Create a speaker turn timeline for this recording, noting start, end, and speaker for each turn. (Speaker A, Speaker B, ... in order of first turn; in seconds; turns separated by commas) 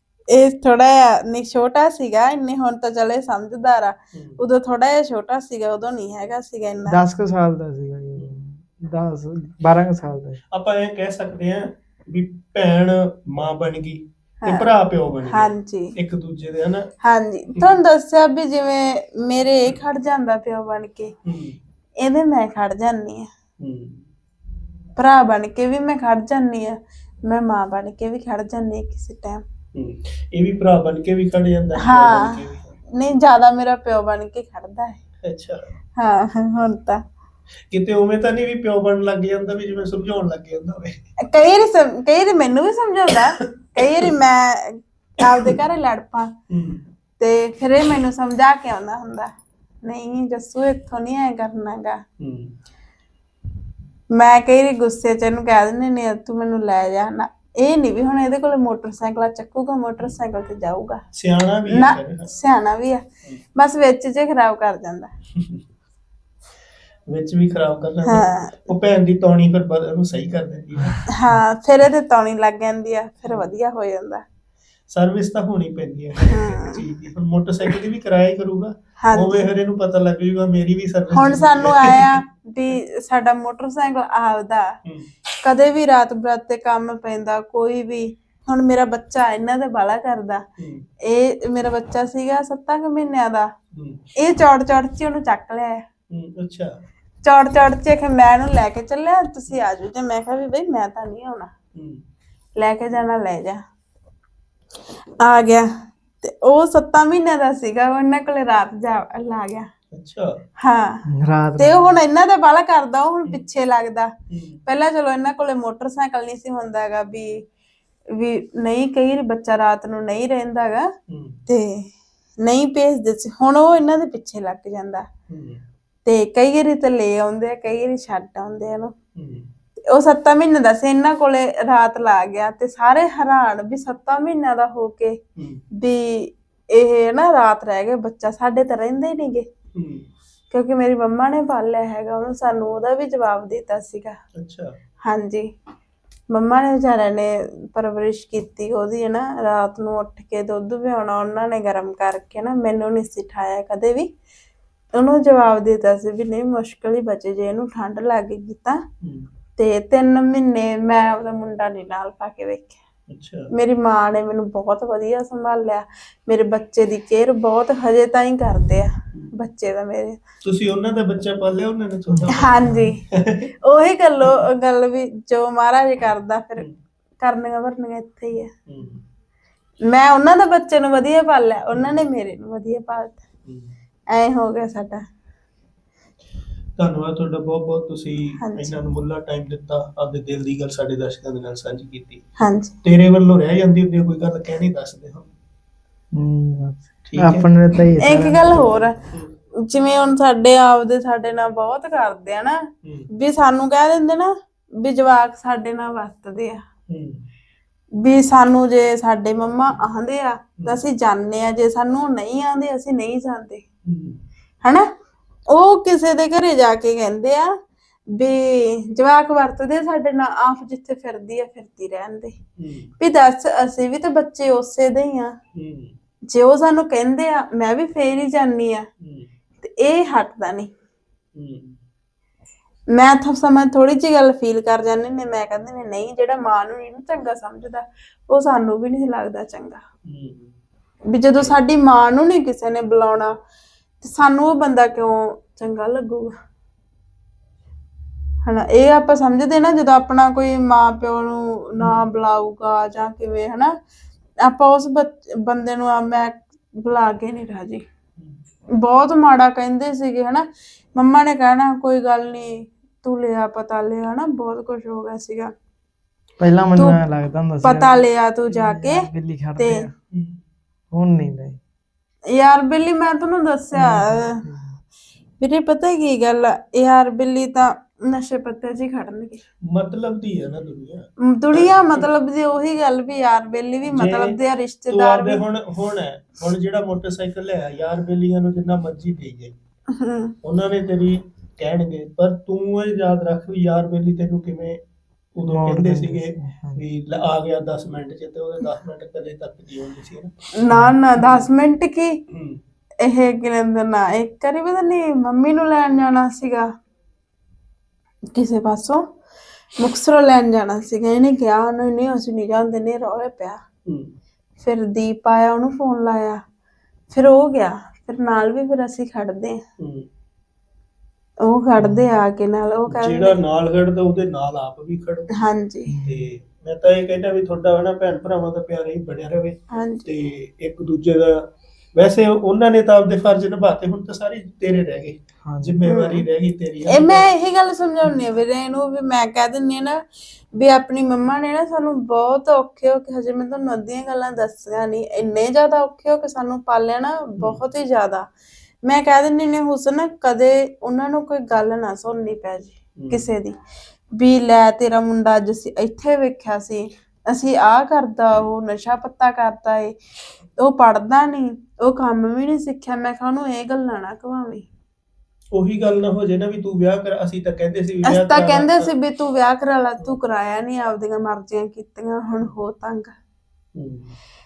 Speaker A: 0.3-7.0, Speaker B: 4.1-4.4, Speaker C: 6.9-10.4, Speaker B: 10.5-16.9, Speaker A: 14.4-14.7, Speaker A: 15.3-15.9, Speaker A: 17.0-21.1, Speaker B: 17.5-17.8, Speaker B: 21.2-21.6, Speaker A: 22.0-23.3, Speaker B: 23.6-24.0, Speaker A: 25.0-29.4, Speaker B: 29.7-32.8, Speaker A: 31.8-32.4, Speaker A: 32.9-35.0, Speaker B: 35.2-35.6, Speaker A: 36.0-37.0, Speaker B: 37.7-41.0, Speaker A: 41.2-46.3, Speaker B: 46.5-46.8, Speaker A: 47.2-49.3, Speaker A: 49.8-52.0, Speaker B: 52.2-52.5, Speaker A: 54.1-61.0, Speaker B: 61.1-62.3, Speaker A: 61.7-63.0, Speaker A: 63.5-65.1, Speaker B: 65.3-65.6, Speaker B: 67.1-71.1, Speaker A: 68.0-68.7, Speaker A: 71.1-74.2, Speaker B: 74.9-82.2, Speaker A: 76.3-76.8, Speaker A: 79.0-79.5, Speaker A: 81.1-84.8, Speaker A: 85.4-90.4, Speaker B: 90.6-90.9, Speaker A: 91.0-93.5, Speaker B: 93.7-94.0, Speaker A: 94.2-95.8, Speaker B: 96.1-96.7, Speaker A: 97.2-101.5, Speaker B: 101.7-102.0, Speaker A: 102.6-103.6, Speaker A: 105.2-105.7, Speaker A: 106.2-109.7, Speaker B: 109.9-110.4, Speaker A: 110.6-111.0, Speaker C: 111.1-111.9, Speaker A: 111.6-114.1, Speaker B: 114.3-114.6, Speaker A: 114.7-117.4, Speaker A: 118.1-120.9, Speaker B: 121.1-121.4, Speaker A: 121.5-121.9, Speaker A: 122.4-125.1, Speaker B: 125.3-125.6, Speaker A: 126.0-128.9, Speaker B: 129.1-129.5, Speaker A: 129.9-135.2, Speaker B: 135.4-135.6, Speaker A: 135.8-139.5, Speaker B: 139.7-140.1, Speaker A: 140.5-144.2, Speaker B: 144.3-144.8, Speaker A: 145.0-145.5, Speaker A: 146.3-154.1, Speaker A: 154.9-158.8, Speaker B: 159.0-159.3, Speaker A: 159.6-162.8, Speaker B: 163.1-163.5, Speaker A: 163.5-170.2, Speaker B: 170.4-173.5, Speaker C: 172.1-172.8, Speaker A: 172.3-173.0, Speaker A: 173.6-176.6, Speaker A: 177.2-178.5, Speaker B: 178.7-179.0, Speaker A: 179.8-183.2, Speaker B: 181.7-182.0, Speaker B: 183.4-183.7, Speaker A: 184.1-185.0, Speaker B: 186.8-192.2, Speaker A: 188.4-188.8, Speaker A: 192.4-192.7, Speaker B: 192.8-195.3, Speaker C: 196.1-198.7, Speaker B: 197.1-197.4, Speaker A: 198.0-198.9, Speaker B: 199.0-199.3, Speaker A: 199.7-206.6, Speaker B: 206.9-207.2, Speaker A: 208.0-213.6, Speaker B: 213.8-214.2, Speaker A: 215.5-217.5, Speaker A: 218.1-222.3, Speaker B: 222.6-222.9, Speaker A: 223.0-225.3, Speaker B: 225.5-225.9, Speaker A: 226.3-228.9, Speaker B: 229.0-229.3, Speaker A: 229.6-230.7, Speaker B: 231.3-231.8, Speaker A: 232.9-239.8, Speaker B: 240.1-240.5, Speaker A: 241.1-243.3, Speaker A: 244.0-246.3, Speaker A: 248.4-253.7, Speaker A: 254.4-257.8, Speaker A: 258.8-265.5, Speaker C: 266.4-269.9, Speaker A: 267.6-269.1, Speaker A: 269.6-269.9, Speaker B: 270.1-270.4, Speaker C: 270.9-271.6, Speaker A: 272.3-274.4, Speaker C: 273.7-274.7, Speaker A: 275.4-279.4, Speaker B: 279.6-282.1, Speaker A: 281.2-285.4, Speaker B: 283.8-284.4, Speaker B: 284.9-289.6, Speaker A: 289.9-290.3, Speaker B: 290.4-294.8, Speaker B: 295.3-300.3, Speaker C: 295.5-296.8, Speaker A: 300.6-302.2, Speaker B: 301.2-301.5, Speaker B: 302.3-302.6, Speaker A: 303.0-306.7, Speaker A: 308.3-309.0, Speaker A: 309.8-313.6, Speaker B: 313.9-314.1, Speaker A: 314.6-316.4, Speaker A: 317.1-319.6, Speaker B: 319.8-320.1, Speaker A: 321.4-323.4, Speaker B: 322.9-325.3, Speaker A: 325.3-325.9, Speaker C: 325.9-326.3, Speaker B: 326.0-337.3, Speaker A: 329.7-330.0, Speaker C: 335.4-335.8, Speaker A: 335.8-336.2, Speaker A: 336.9-340.0, Speaker A: 340.6-348.3, Speaker A: 348.9-353.6, Speaker B: 353.0-353.3, Speaker A: 354.1-359.9, Speaker A: 360.6-364.6, Speaker B: 365.5-368.9, Speaker A: 368.0-373.1, Speaker B: 373.7-374.1